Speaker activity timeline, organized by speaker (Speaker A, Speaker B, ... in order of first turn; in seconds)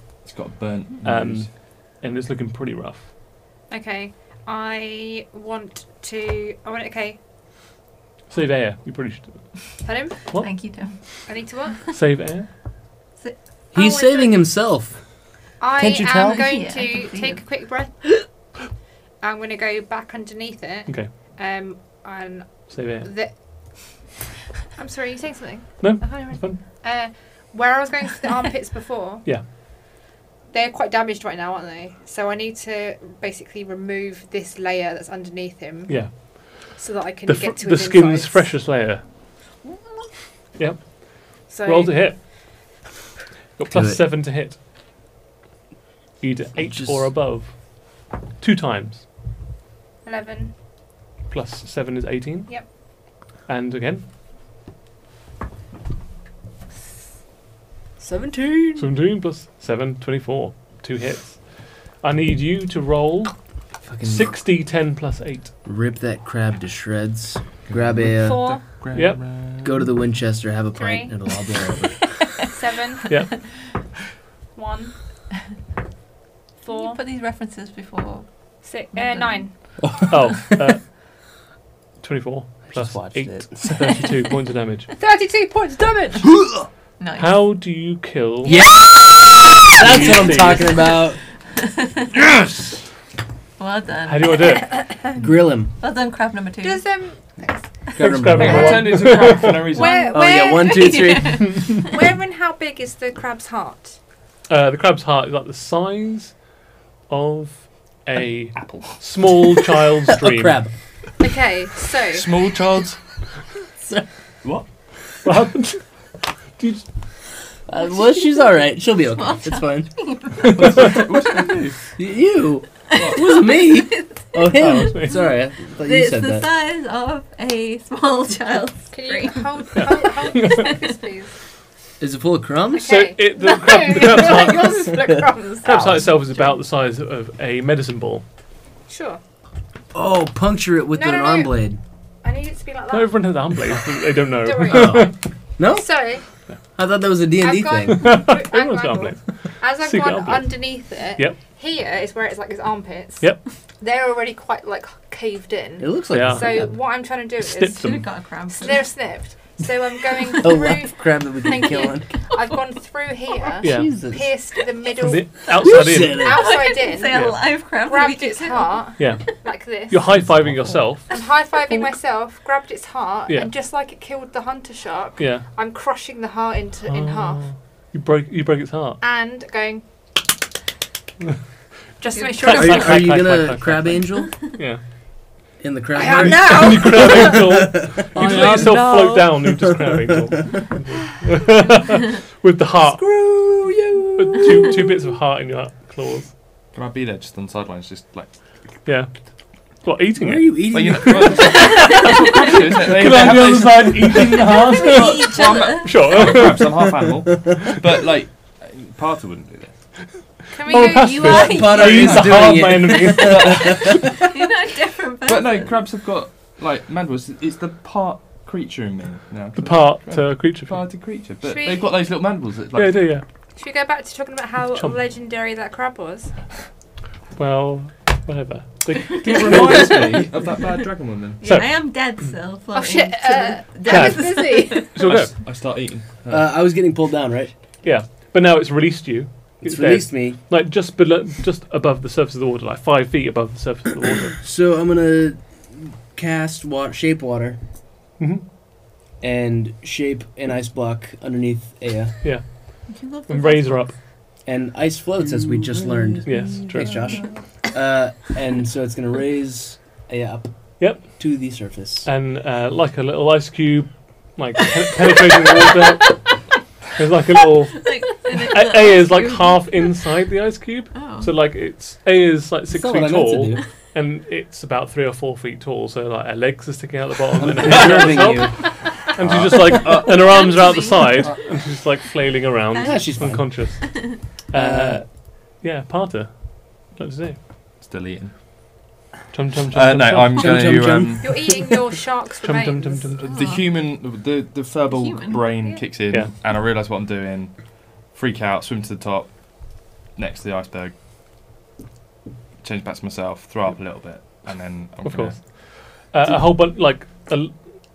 Speaker A: 0.2-1.5, 67.6-69.9, 98.3-100.1, 108.5-109.0, 112.1-113.0, 120.4-121.8, 122.9-123.2, 196.7-198.3, 200.7-209.7, 212.0-214.0, 215.2-223.1, 229.2-231.4, 235.0-236.5, 277.6-278.1, 279.2-280.5, 287.8-288.3, 289.7-291.6, 293.3-300.9, 302.6-305.7
Speaker B: 1.0-3.1, 8.3-9.5, 10.3-10.5, 11.9-12.5, 22.7-23.1, 25.8-26.6, 35.9-39.0, 40.6-42.2, 43.6-44.6, 46.2-47.6, 48.4-49.0, 51.3-52.7, 53.5-54.0, 58.8-61.5, 62.0-63.3, 64.0-65.5, 68.9-69.2, 80.1-80.8, 82.0-84.9, 87.2-88.6, 89.8-90.7, 94.0-94.8, 98.0-99.7, 104.5-106.3, 107.1-110.6, 115.2-115.8, 116.6-116.8, 120.6-120.9, 124.6-125.2, 129.7-130.7, 132.8-134.9, 135.6-138.2, 142.9-145.1, 147.9-150.6, 156.1-156.7, 157.4-158.1, 163.6-163.9, 165.0-166.3, 167.1-167.4, 169.0-171.1, 175.2-175.4, 176.8-179.0, 182.4-184.8, 186.3-193.0, 194.2-196.3, 198.8-199.1, 199.7-206.8, 210.5-213.8, 219.6-220.8, 222.7-223.2, 227.3-230.2, 231.4-231.8, 233.8-235.3, 237.8-244.3, 248.2-248.4, 253.3-253.9, 256.2-257.1, 260.8-261.1, 262.0-266.3, 266.9-287.4, 289.3-290.6, 292.4-293.4, 305.0-307.6
Speaker C: 3.7-7.2, 9.8-10.2, 11.2-11.9, 13.7-14.4, 15.6-18.3, 19.2-24.1, 24.7-29.2, 30.5-38.5, 41.5-42.2, 50.0-50.5, 58.0-58.9, 68.2-68.6, 70.7-71.1, 72.5-73.1, 74.5-74.9, 76.6-77.0, 78.6-79.5, 85.0-86.4, 96.6-97.6, 99.0-104.0, 111.2-112.3, 128.9-131.3, 132.7-136.2, 138.9-139.2, 140.9-141.5, 142.2-143.3, 144.4-146.2, 147.4-170.2, 171.1-177.4, 179.0-179.8, 182.0-183.1, 185.9-187.4, 188.3-188.8, 210.5-211.7, 221.4-221.9, 223.6-226.3, 232.7-234.9, 291.2-293.1
Speaker D: 10.4-11.0, 16.0-17.4, 76.7-78.2, 78.9-79.5, 87.0-87.4, 90.4-90.7, 91.6-92.1, 93.6-94.8, 95.8-96.8, 99.7-101.8, 117.8-121.0, 122.9-130.7, 157.8-158.9, 162.3-162.6, 166.2-168.8, 182.1-183.0, 201.5-202.4, 204.6-206.1, 210.7-212.3, 214.0-215.8, 231.4-234.9, 252.9-253.9, 267.8-269.9, 270.9-271.3, 280.1-281.3, 282.7-283.1, 283.9-284.2, 293.2-293.7, 294.9-295.6
Speaker E: 13.7-14.9, 15.8-16.5, 43.7-44.0, 46.6-47.1, 63.8-64.3, 65.6-68.5, 69.6-72.2, 79.8-80.5, 82.7-84.0, 86.3-86.6, 88.4-91.2, 95.2-95.7, 97.9-99.0, 100.1-101.7, 110.2-110.7, 113.8-114.0, 117.7-119.9, 121.9-126.5, 132.0-133.0, 135.6-136.1, 139.9-141.8, 144.7-146.0, 146.7-148.1, 155.8-156.7, 160.4-162.1, 163.6-164.3, 165.6-166.4, 182.5-184.5, 185.6-190.0, 192.8-194.9, 200.2-201.6, 211.2-214.2, 229.4-230.1, 236.3-237.5, 239.6-240.4, 244.4-247.6, 249.2-252.1, 254.4-262.1, 272.7-273.6, 277.4-278.7, 282.8-283.9, 284.5-285.0, 290.4-291.8